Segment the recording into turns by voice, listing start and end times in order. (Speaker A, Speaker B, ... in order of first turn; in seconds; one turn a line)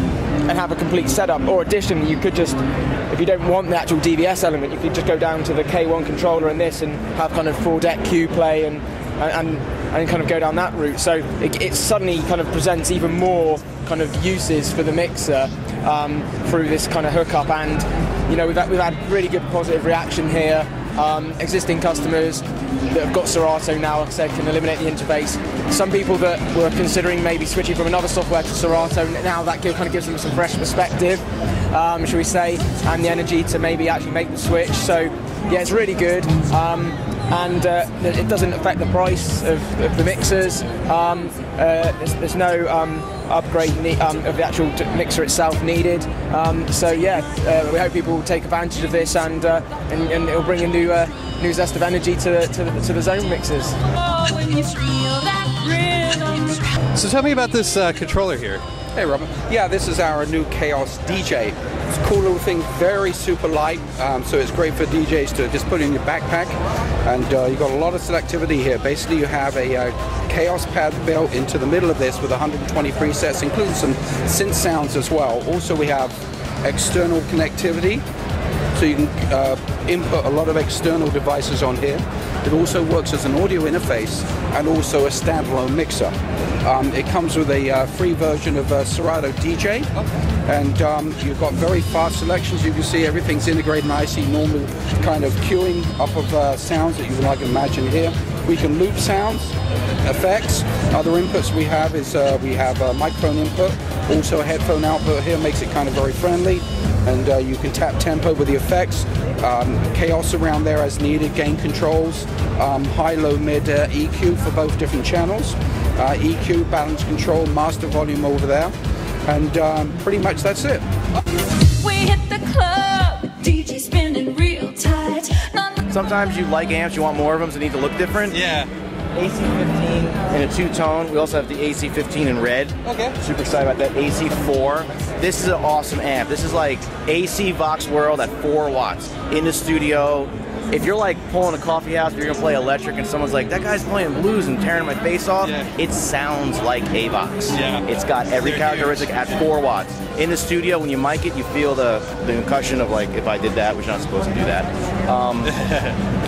Speaker A: 0.5-53.8
Speaker B: 53.9-56.7
Speaker C: 56.9-58.6
Speaker D: 58.9-78.0
Speaker D: 78.7-89.9
Speaker D: 90.5-118.7
Speaker D: 119.2-120.8
Speaker B: 121.8-125.8
Speaker E: 125.9-128.4
Speaker C: 128.3-128.7
Speaker E: 129.1-155.6
Speaker C: 132.8-133.1
Speaker C: 145.4-145.7
Speaker C: 147.5-147.8
Speaker C: 148.4-149.1
Speaker C: 155.4-155.9